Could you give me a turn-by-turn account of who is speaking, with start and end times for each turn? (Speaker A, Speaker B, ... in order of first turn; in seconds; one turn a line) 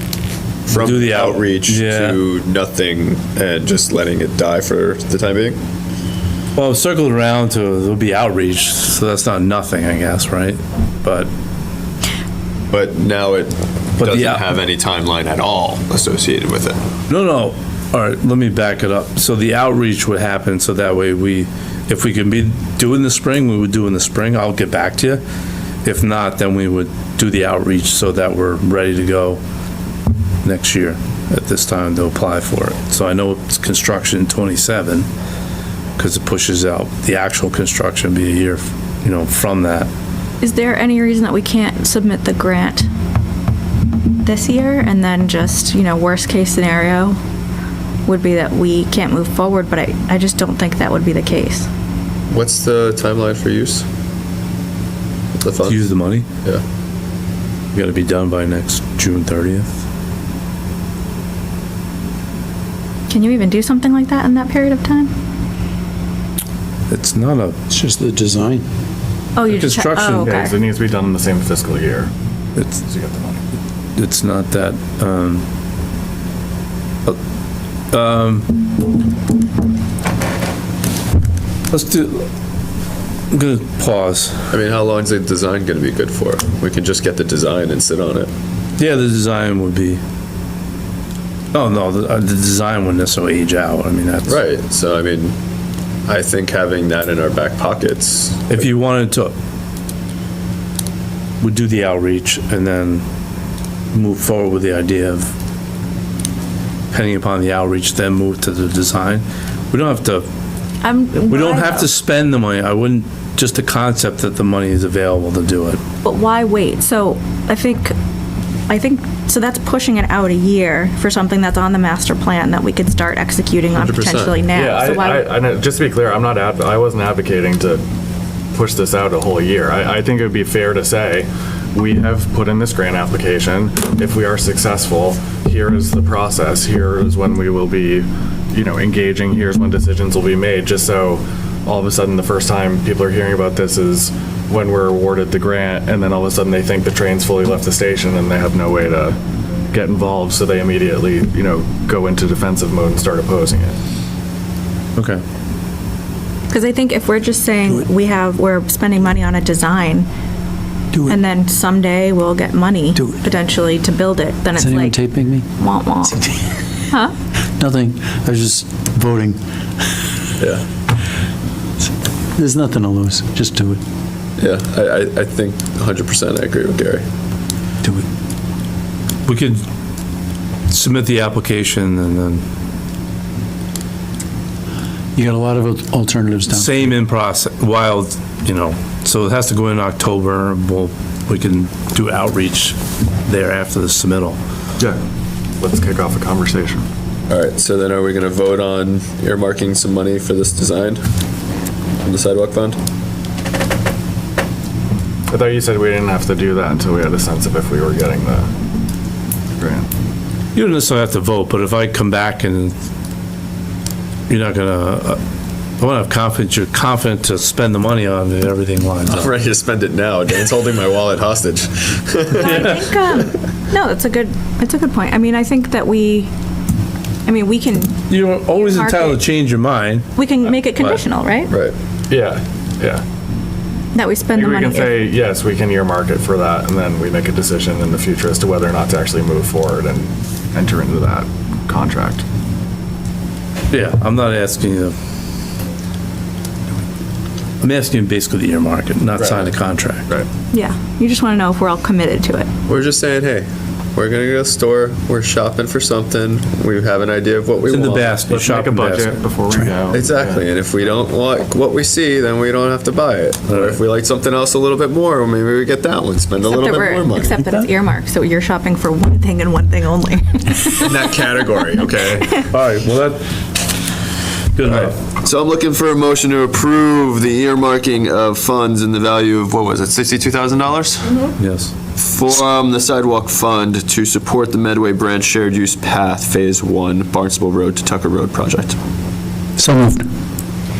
Speaker A: 0.7-5.6
Speaker B: 0.7-2.2
Speaker B: 6.6-11.3
Speaker A: 12.7-16.8
Speaker B: 14.0-14.4
Speaker B: 17.1-25.2
Speaker B: 25.8-29.4
Speaker B: 30.4-35.1
Speaker B: 36.0-39.9
Speaker C: 40.4-42.9
Speaker C: 44.2-47.2
Speaker C: 48.1-51.7
Speaker A: 52.3-53.9
Speaker A: 55.4-55.8
Speaker B: 55.7-56.3
Speaker B: 57.8-59.7
Speaker C: 63.1-65.1
Speaker B: 66.9-67.6
Speaker D: 67.7-68.7
Speaker C: 69.4-70.5
Speaker B: 69.5-70.3
Speaker E: 70.2-72.1
Speaker E: 72.8-73.4
Speaker B: 74.0-75.5
Speaker B: 77.9-78.5
Speaker B: 81.7-82.3
Speaker B: 83.3-84.5
Speaker A: 84.5-88.3
Speaker B: 88.8-90.0
Speaker B: 91.5-94.4
Speaker A: 94.3-95.3
Speaker A: 96.1-98.6
Speaker B: 98.5-99.3
Speaker B: 101.4-103.0
Speaker B: 103.9-105.3
Speaker B: 106.9-110.3
Speaker C: 110.8-111.9
Speaker B: 111.3-115.8
Speaker C: 116.0-117.9
Speaker C: 118.7-125.3
Speaker A: 123.8-124.4
Speaker E: 124.5-127.8
Speaker E: 128.5-149.2
Speaker E: 149.7-153.8
Speaker B: 155.0-155.2
Speaker C: 156.5-160.1
Speaker C: 161.1-165.0
Speaker D: 164.6-165.5
Speaker C: 165.5-166.2
Speaker D: 166.2-166.5
Speaker D: 167.6-169.4
Speaker D: 172.3-173.8
Speaker A: 174.4-177.1
Speaker B: 179.3-179.6
Speaker B: 180.7-182.4
Speaker D: 185.2-186.7
Speaker B: 186.5-194.4
Speaker E: 195.6-196.9
Speaker A: 197.3-201.0
Speaker A: 202.0-202.8
Speaker E: 205.3-208.5
Speaker E: 209.6-209.9
Speaker B: 210.6-212.7
Speaker B: 214.3-215.2
Speaker B: 215.8-219.3
Speaker A: 219.1-222.8
Speaker C: 222.4-226.3
Speaker B: 222.4-222.8
Speaker C: 227.3-229.2
Speaker B: 228.1-231.0
Speaker C: 230.2-231.5
Speaker A: 231.5-231.7
Speaker E: 232.1-233.0
Speaker C: 233.9-235.1
Speaker E: 234.3-242.2
Speaker B: 243.7-244.9
Speaker B: 247.6-250.1
Speaker E: 249.2-249.5
Speaker C: 250.5-252.5
Speaker A: 252.7-258.2
Speaker B: 257.7-259.2
Speaker E: 258.3-260.4
Speaker A: 259.9-267.4
Speaker B: 263.5-263.8
Speaker C: 266.4-270.9
Speaker A: 270.7-272.4
Speaker B: 272.5-273.2
Speaker B: 274.6-274.9
Speaker A: 274.6-281.3
Speaker B: 281.4-281.7
Speaker A: 282.0-288.8
Speaker D: 289.6-290.0